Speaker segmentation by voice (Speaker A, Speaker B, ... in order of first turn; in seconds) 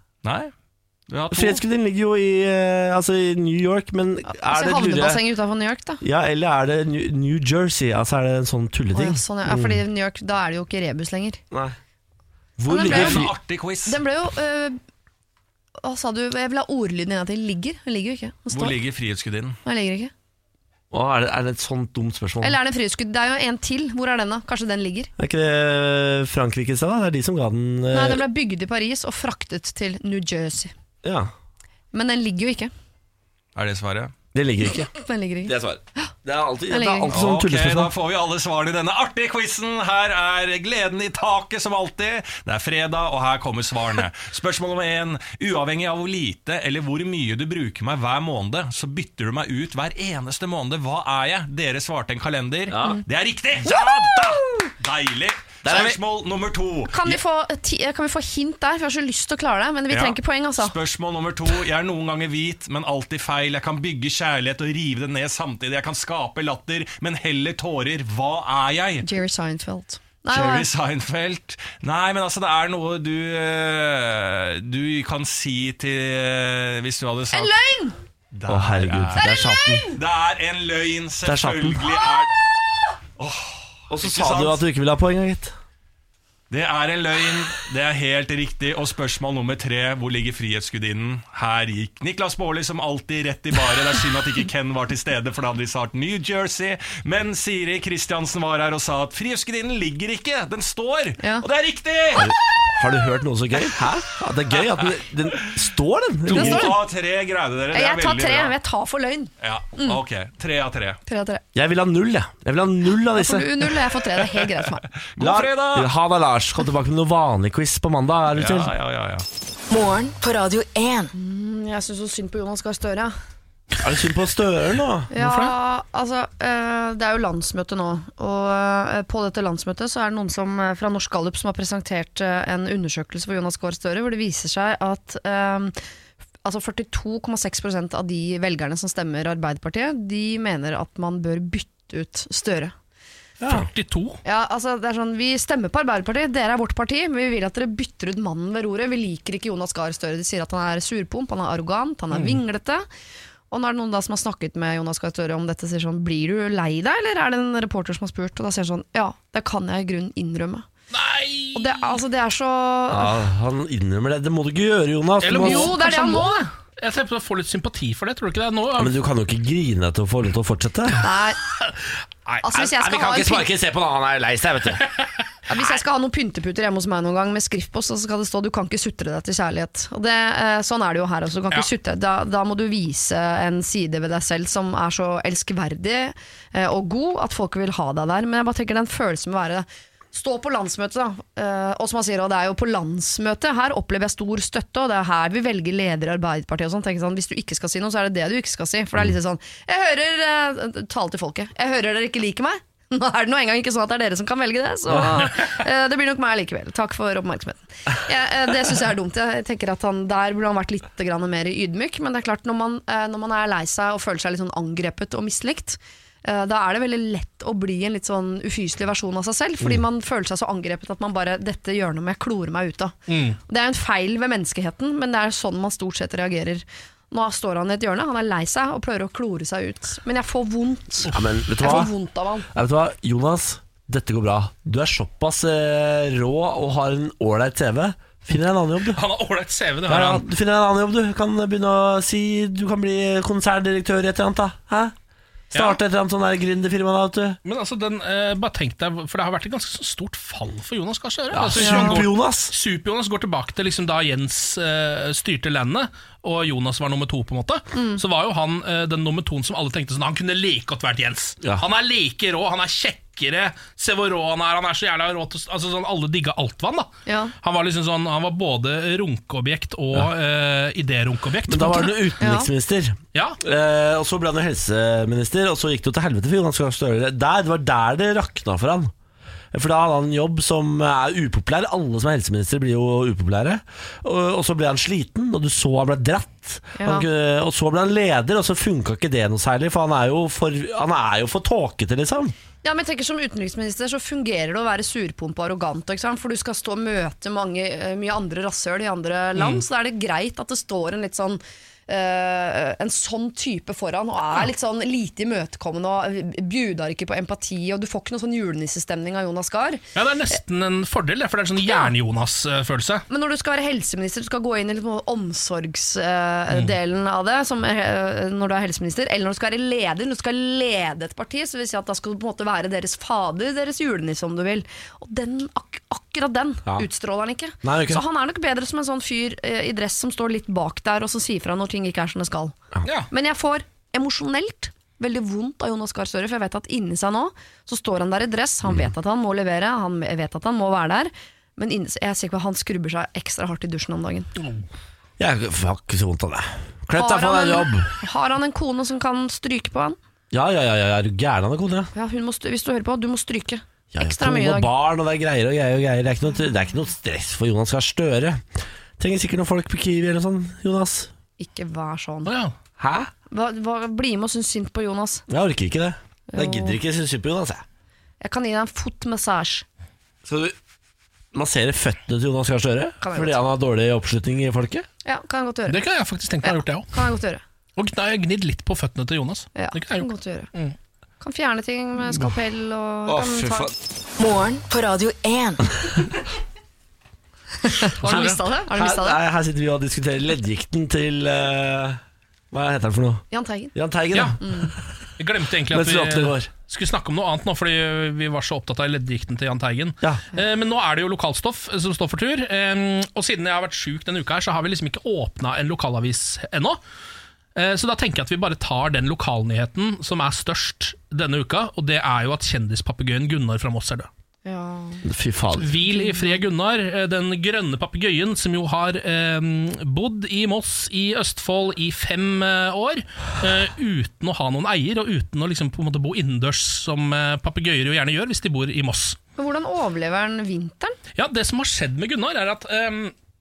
Speaker A: 0.2-0.5, 1.1-1.6, 12.7-14.0, 18.5-19.6, 33.5-34.1, 37.1-57.2, 59.9-69.1, 70.3-77.5, 78.3-79.3, 79.9-82.3, 83.2-84.6, 86.5-102.3, 106.3-108.5, 109.4-111.0, 115.1-115.9, 118.3-119.2
Speaker B: 1.3-5.2, 6.0-9.8, 12.6-13.3, 20.9-22.6, 25.2-28.2, 31.0-31.3, 34.3-34.9, 35.5-37.9, 52.7-53.0, 55.6-56.0, 78.5-79.8, 81.2-81.9, 83.9-85.5, 102.1-106.7, 111.5-113.7, 115.2-118.7, 123.8-125.1, 143.4-143.7, 162.9-165.8, 168.8-171.0, 172.5-174.9, 231.1-231.9, 232.5-239.0, 239.9-244.9, 245.5-247.4, 251.3-252.5, 271.5-278.9, 279.5-292.3, 327.6-328.0, 345.2-347.9, 350.3-351.9, 353.9-358.4, 359.0-361.1, 362.8-363.1, 365.3-367.6, 370.2-370.6, 371.3-374.9, 383.1-383.7, 388.1-392.0, 392.5-394.8, 395.7-396.5, 415.0-415.8
Speaker C: 4.3-6.0, 8.9-11.4, 12.7-13.3, 13.8-14.8, 15.8-18.8, 19.6-20.1, 22.4-25.1, 27.9-30.7, 31.9-32.7, 34.9-36.1, 36.7-37.1, 53.6-54.7, 56.9-60.8, 69.0-70.7, 77.3-78.0, 79.2-80.0, 101.2-101.4, 106.3-106.7, 107.7-110.0, 111.0-111.4, 113.1-114.9, 121.1-123.1, 125.1-135.7, 136.4-142.7, 144.2-152.8, 153.5-160.7, 161.5-163.2, 165.3-166.5, 171.0-171.4, 172.4-173.5, 175.5-232.5, 251.6-252.0, 257.7-258.0, 267.1-267.3, 272.2-272.5, 286.8-287.1, 292.6-309.8, 311.6-311.9, 313.1-332.6, 333.1-344.3, 346.9-350.0, 351.9-354.7, 361.4-362.3, 363.3-365.2, 366.3-366.8, 368.2-369.6, 373.0-373.4, 375.0-375.8, 376.4-377.4, 379.5-380.5, 381.2-383.7, 387.6-389.2, 393.3-393.7, 394.4-394.7, 414.4-415.0, 415.9-416.4, 429.4-431.0
Speaker D: 119.7-121.1, 384.2-385.7
Speaker E: 125.2-125.5, 143.4-144.2, 152.1-152.4, 160.9-162.0, 165.2-168.9, 223.1-223.4, 231.0-231.9, 238.9-240.2, 247.4-271.9, 273.1-273.4, 299.4-299.6, 309.9-313.0, 362.2-362.5, 375.7-376.9, 377.8-380.8, 388.0-388.4, 394.1-394.4, 395.2-406.8, 407.5-414.1, 415.5-429.2, 431.1-433.1